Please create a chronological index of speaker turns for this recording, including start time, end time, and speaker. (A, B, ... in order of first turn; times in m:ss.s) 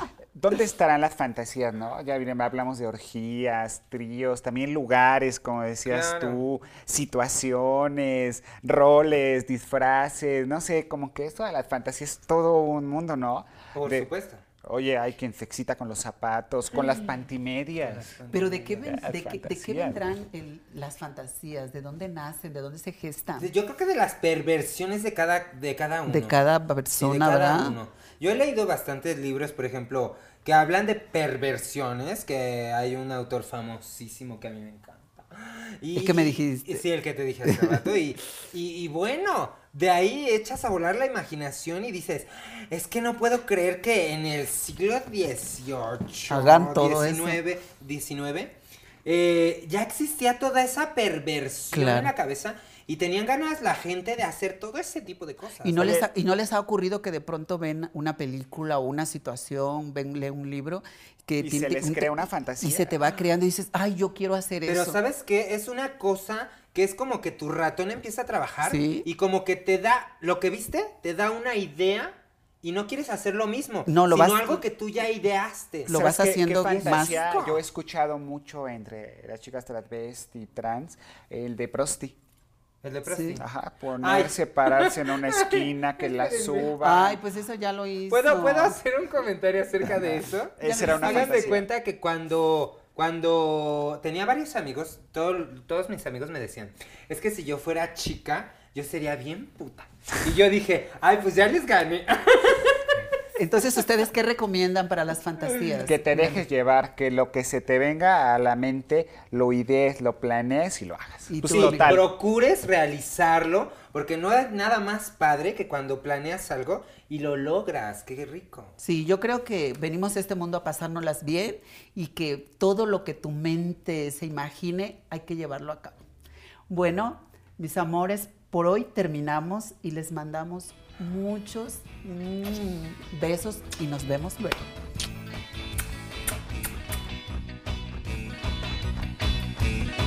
0:00.3-0:14.1 A
0:05.9-0:06.4 B
0:13.7-0:14.4 B
0:14.6-0:20.0 A
0:16.9-0:17.1 B
0:17.8-0:18.8 B
0:18.3-0:23.5 C
0:23.4-0:26.4 B
0:26.1-0:27.8 C
0:27.0-0:56.0 B
0:36.0-0:36.8 C
0:37.5-0:37.8 C
0:46.3-0:47.4 C
0:51.7-0:52.1 C
0:55.6-1:05.0 C
0:55.8-0:56.1 A
1:01.4-1:03.0 A
1:04.6-1:16.0 B
1:08.6-1:09.1 C
1:13.9-1:14.6 C
1:15.9-1:17.6 C
1:15.9-1:22.2 A
1:16.6-1:17.3 B
1:22.8-1:23.5 B
1:23.1-1:23.4 C
1:23.4-1:27.2 A
1:24.0-1:26.8 B
1:26.8-1:28.8 C
1:28.1-1:43.0 B
1:30.6-1:31.7 A
1:30.6-1:31.6 C
1:43.4-1:46.4 C
1:45.8-1:52.1 A
1:51.3-1:52.0 C
1:51.5-1:58.8 B
1:58.8-2:06.0 C
2:06.7-2:14.6 C